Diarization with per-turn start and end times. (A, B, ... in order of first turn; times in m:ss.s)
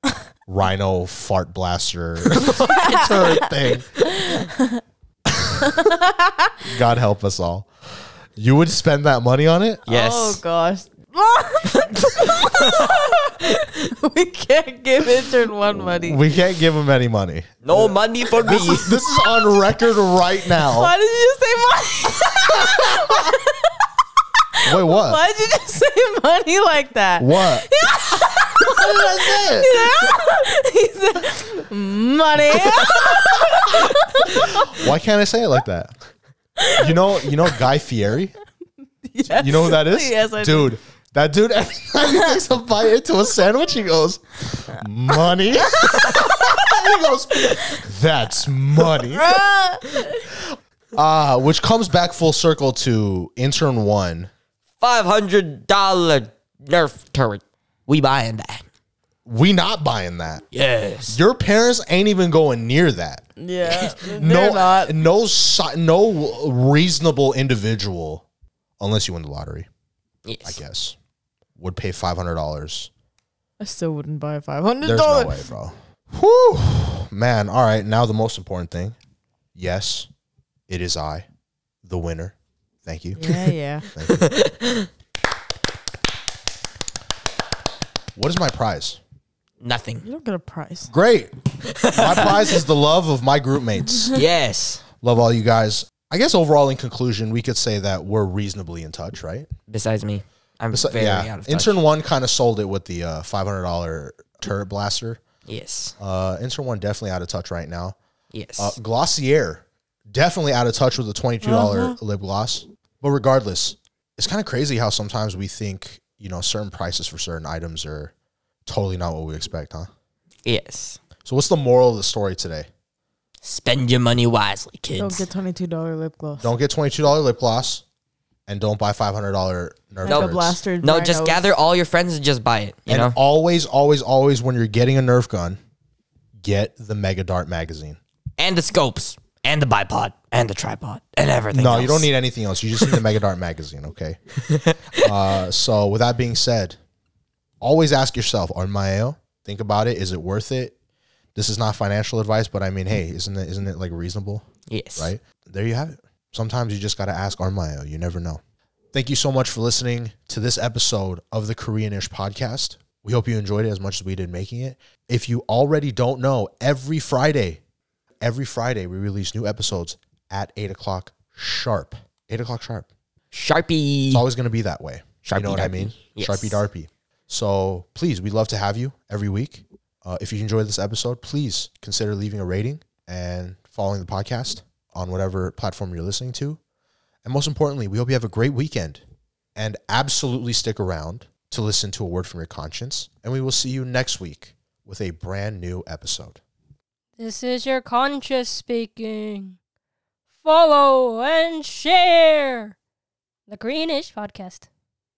0:00.5-0:03.9 A
0:02.4-0:02.9 B
0:02.6-0:03.4 C
0:04.0-0:04.8 C
0:05.3-0:05.9 A
0:05.6-0:06.6 C
0:06.6-0:07.7 A
0:08.4-0:09.8 A
0:09.9-0:10.4 B
0:09.9-0:16.2 C
0:11.7-0:13.0 B
0:15.8-0:20.9 A
0:17.6-0:19.0 B
0:20.7-0:23.9 C
0:22.7-0:23.1 A
0:24.6-0:34.9 C
0:24.7-0:25.2 A
0:27.2-0:27.7 A
0:28.6-0:30.0 A
0:34.3-0:35.9 A
0:36.6-0:37.6 C
0:36.8-0:38.4 A
0:39.1-0:40.7 C
0:39.3-0:49.4 A
0:45.9-0:46.6 B
0:49.1-0:50.2 C
0:50.9-0:54.3 A
0:54.8-0:58.7 B
0:59.3-1:00.4 A
1:00.5-1:01.2 B
1:01.1-1:03.3 A
1:03.4-1:05.0 C
1:03.8-1:08.2 A
1:08.8-1:09.7 A
1:10.2-1:10.6 B
1:10.4-1:11.0 A
1:11.6-1:12.9 A
1:13.6-1:15.4 C
1:14.8-1:19.0 A
1:19.6-1:20.1 A
1:20.7-1:21.3 A
1:21.8-1:24.3 A
1:23.2-1:23.8 C
1:24.0-1:24.9 B
1:28.2-1:29.0 A
1:29.6-1:30.1 B
1:30.0-1:30.9 C
1:30.9-1:31.3 A
1:31.7-1:32.6 B
1:31.8-1:34.2 A
1:34.1-1:34.8 B
1:35.0-1:39.5 A
1:39.7-1:41.8 B
1:40.7-1:45.2 A
1:45.5-1:46.0 B
1:46.0-1:48.0 A
1:48.3-1:48.8 B
1:48.6-1:58.1 A
1:51.4-1:52.0 B
1:58.7-1:59.9 A
2:00.4-2:01.0 B
2:01.2-2:02.7 A
2:03.4-2:05.3 B
2:05.0-2:06.5 C
2:06.4-2:07.8 A
2:08.5-2:10.6 A
2:10.0-2:11.4 C
2:10.1-2:13.2 B
2:12.9-2:15.6 A
2:16.4-2:18.0 A
2:18.4-2:22.1 B
2:21.5-2:24.2 A
2:24.4-2:25.2 B
2:24.9-2:26.8 A
2:27.6-2:30.7 A
2:31.4-2:34.4 A
2:34.7-2:35.1 B
2:35.0-2:38.4 A
2:38.9-2:47.6 A
2:48.2-2:52.9 A
2:53.3-2:54.3 B
2:54.1-3:06.6 A
2:55.2-2:56.6 B
3:07.2-3:09.0 A
3:09.6-3:16.4 A
3:17.2-3:19.6 D
3:20.4-3:22.8 D
3:23.5-3:24.7 D